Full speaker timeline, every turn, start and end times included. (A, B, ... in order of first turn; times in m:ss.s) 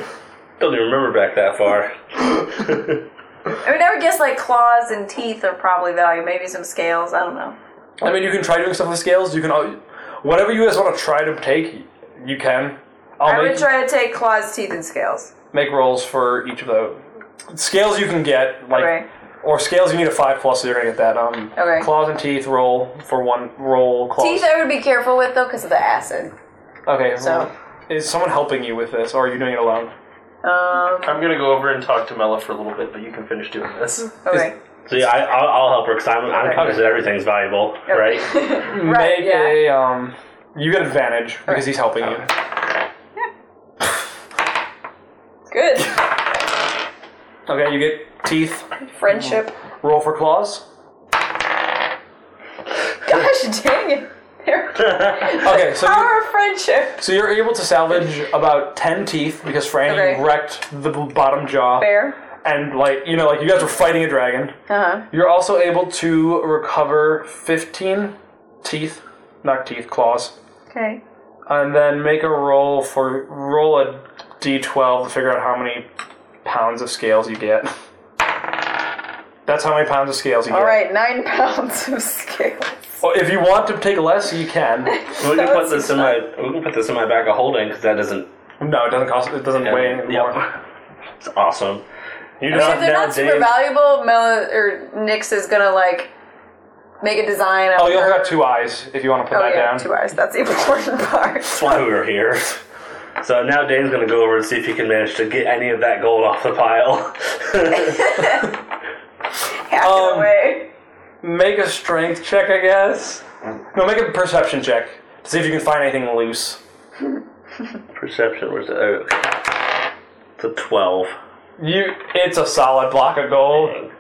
0:00.6-0:03.0 A
0:03.6-0:07.6 B
0:08.0-0:13.7 C
0:13.2-0:15.3 B
0:15.5-0:24.5 C
0:18.7-0:19.1 B
0:21.6-0:21.9 B
0:24.2-0:26.3 B
0:26.9-0:29.9 C
0:27.2-0:27.5 B
0:30.4-0:31.2 B
0:31.0-0:34.2 D
0:34.2-0:34.6 B
0:34.9-0:38.5 A
0:37.9-0:39.6 B
0:38.6-0:42.3 C
0:45.5-0:46.2 B
0:47.5-0:48.7 C
0:48.9-0:49.5 B
0:49.8-0:50.6 C
0:53.0-0:57.0 B
0:54.9-0:55.3 A
0:55.4-0:56.1 C
0:57.0-1:01.9 C
0:59.9-1:00.2 B
1:01.8-1:02.2 B
1:02.4-1:04.6 C
1:04.7-1:05.0 B
1:05.1-1:10.4 C
1:10.7-1:11.0 B
1:11.5-1:15.9 C
1:16.4-1:17.7 C
1:19.5-1:20.8 C
1:20.5-1:23.0 B
1:23.0-1:24.9 C
1:24.9-1:26.2 B
1:25.1-1:28.3 A
1:28.6-1:30.5 C
1:29.6-1:30.5 A
1:31.2-1:31.8 A
1:32.4-1:32.9 C
1:32.5-1:33.5 A
1:32.5-1:36.1 B
1:37.0-1:38.2 B
1:37.8-1:39.9 C
1:39.3-1:41.8 B
1:41.4-1:42.6 A
1:43.2-1:48.4 A
1:47.8-1:48.4 B
1:49.7-1:50.7 B
1:49.8-1:50.3 C
1:51.2-1:56.6 C
1:57.9-1:59.5 A
2:00.4-2:01.2 A
2:01.6-2:03.8 C
2:03.6-2:03.9 A